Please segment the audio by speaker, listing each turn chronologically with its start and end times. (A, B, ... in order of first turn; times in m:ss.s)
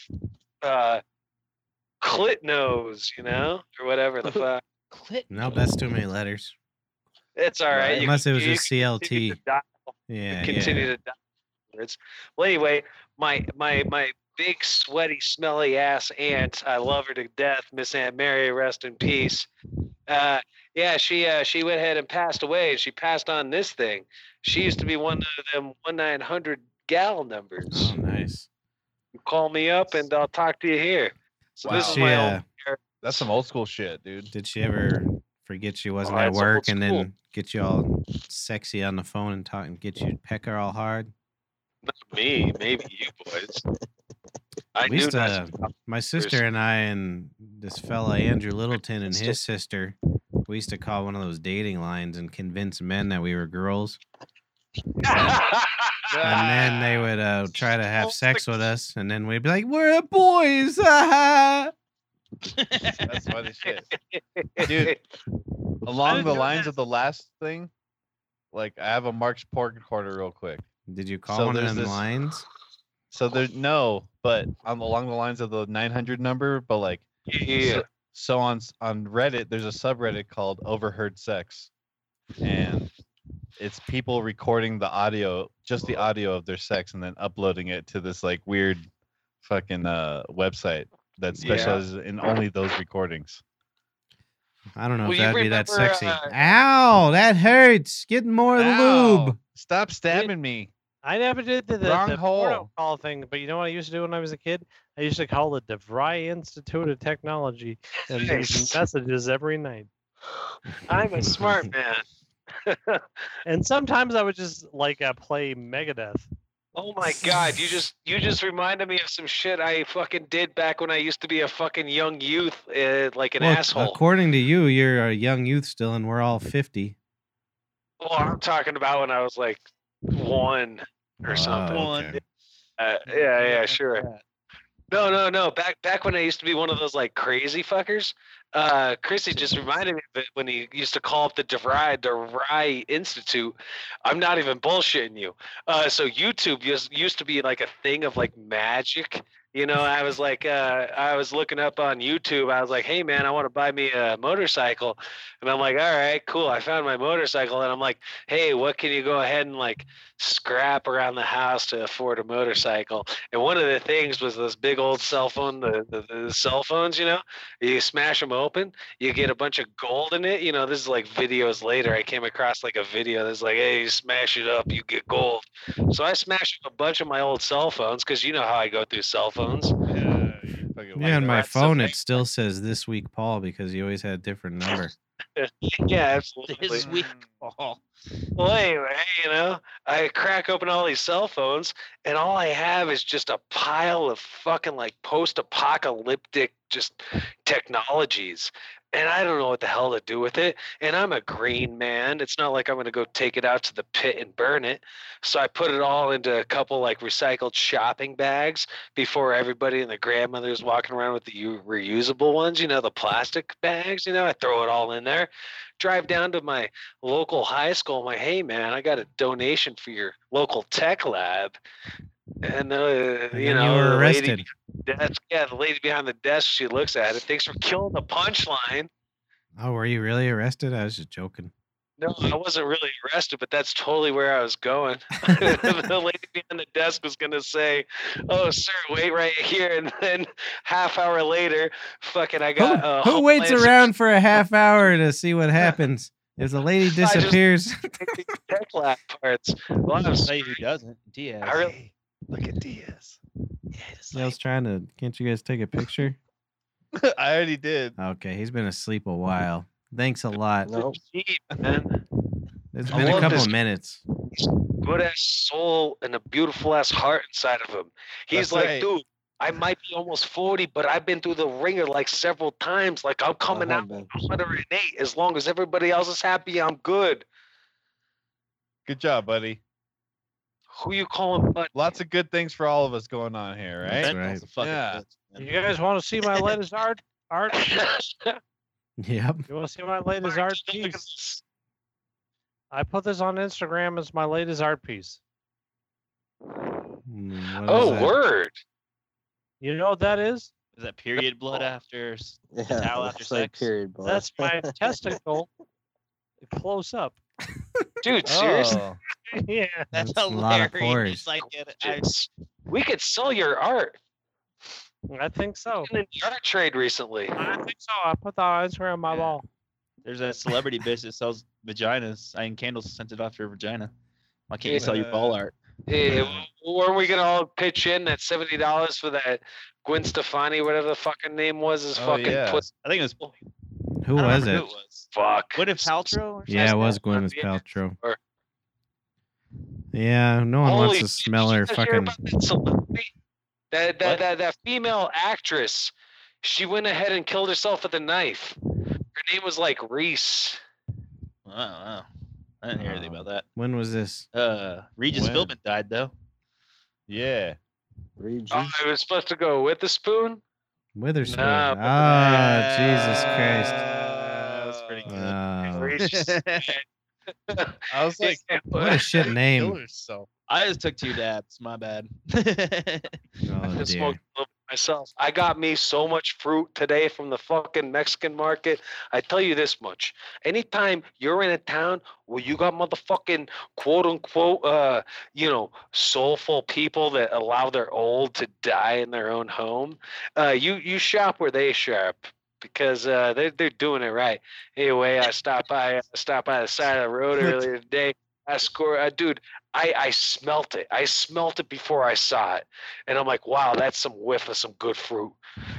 0:00.6-0:01.0 A
0:02.0-0:04.6 A
0:04.9-0:05.6 B
0:05.3-0:06.5 C
0:07.4-0:11.1 A
0:08.0-0:09.4 C
0:10.1-0:10.9 C
0:11.7-0:19.5 A
0:20.1-0:27.9 A
0:27.7-0:28.5 C
0:29.2-0:33.3 A
0:31.6-0:32.1 D
0:31.7-0:32.4 C
0:33.0-0:34.3 D
0:34.3-0:41.1 C
0:36.0-0:37.1 A
0:41.8-0:43.6 A
0:44.7-0:45.6 A
0:44.8-0:50.0 C
0:50.5-0:54.0 C
0:55.0-0:56.7 A
0:56.1-0:56.8 D
0:56.2-1:01.7 C
0:57.7-0:58.6 A
1:02.5-1:03.3 B
1:03.0-1:03.9 D
1:03.6-1:05.0 A
1:04.6-1:04.9 D
1:05.8-1:07.7 D
1:06.0-1:06.7 E
1:06.0-1:06.4 A
1:08.5-1:10.6 D
1:10.9-1:12.4 C
1:11.3-1:12.0 D
1:13.1-1:21.7 D
1:17.3-1:17.8 A
1:22.4-1:22.9 D
1:23.6-1:28.9 D
1:29.4-1:33.4 D
1:31.3-1:31.8 C
1:31.4-1:31.8 B
1:34.8-1:39.4 C
1:35.0-1:36.4 A
1:38.6-1:40.7 D
1:41.0-1:49.9 E
1:41.8-1:42.7 D
1:48.1-1:48.8 A
1:50.8-1:52.0 A
1:51.2-1:51.7 C
1:52.6-1:53.0 A
1:53.4-1:56.3 E
1:56.7-2:04.0 A
1:57.0-1:57.4 C
2:03.4-2:07.0 C
2:08.0-2:11.9 A
2:11.2-2:12.2 C
2:11.6-2:12.2 B
2:12.8-2:14.0 A
2:13.1-2:14.2 B
2:14.9-2:59.7 A
2:59.9-3:01.9 D
3:00.9-3:04.9 C
3:01.0-3:01.9 A
3:05.4-3:06.9 A
3:06.5-3:07.8 B
3:06.7-3:07.3 D
3:08.4-3:41.6 A
3:42.4-3:48.9 A
3:43.3-3:44.4 C
3:49.6-3:51.5 C
3:52.0-4:03.8 A
3:55.3-3:55.6 C
4:02.6-4:08.2 C
4:06.8-4:07.4 A
4:08.0-4:10.6 A
4:10.2-4:11.7 B
4:11.4-4:13.1 A
4:13.7-4:14.3 B
4:14.1-4:16.2 C
4:16.9-4:18.0 D
4:18.0-4:20.8 C
4:20.6-4:21.0 F
4:20.9-4:22.0 A
4:22.7-4:24.0 C
4:22.9-4:23.5 D
4:22.9-4:23.5 A
4:24.3-4:37.2 A
4:28.3-4:28.9 D
4:33.5-4:34.1 F
4:38.8-4:39.6 D
4:40.7-4:41.7 A
4:41.7-4:45.0 D
4:43.8-4:44.4 C
4:44.0-4:45.6 B
4:45.4-4:47.7 E
4:47.5-4:48.4 A
4:49.0-4:49.5 C
4:49.5-4:51.0 E
4:50.2-4:51.4 A
4:52.7-4:55.2 E
4:57.0-4:58.2 C
4:57.6-4:58.6 A
4:59.6-5:00.5 E
5:00.8-5:03.7 B
5:02.5-5:05.2 F
5:04.0-5:05.5 E
5:06.4-5:07.2 E
5:08.0-5:08.8 A
5:08.2-5:09.0 D
5:09.3-5:09.9 E
5:09.9-5:12.1 B
5:09.9-5:11.3 C
5:11.8-5:14.0 A
5:15.1-5:15.9 E
5:15.8-5:17.3 A
5:17.4-5:19.4 E
5:20.0-5:23.9 B
5:24.5-5:25.5 B
5:24.7-5:25.4 D
5:25.9-5:32.7 A
5:26.1-5:26.4 D
5:31.9-5:32.6 D
5:32.8-5:33.3 B
5:34.0-5:34.7 C
5:34.1-5:37.0 B
5:35.1-5:38.2 A
5:36.5-5:38.0 C
5:39.9-5:42.2 C
5:40.6-5:43.1 A
5:43.7-5:48.6 A
5:49.1-5:50.6 A
5:51.4-5:52.0 B
5:52.6-5:53.4 B
5:52.8-5:54.3 C
5:54.3-5:56.1 B
5:55.1-5:55.5 D
5:57.1-5:57.6 D
5:58.2-5:58.8 F
5:58.5-6:00.4 A
6:00.9-6:03.8 C
6:01.2-6:02.1 A
6:02.0-6:06.8 B
6:03.8-6:05.3 D
6:05.1-6:06.0 C
6:05.7-6:06.8 A
6:07.5-6:09.3 A
6:07.9-6:08.6 D
6:08.7-6:09.8 C
6:09.3-6:10.3 D
6:10.5-6:13.2 B
6:13.4-6:14.2 C
6:13.8-6:45.4 A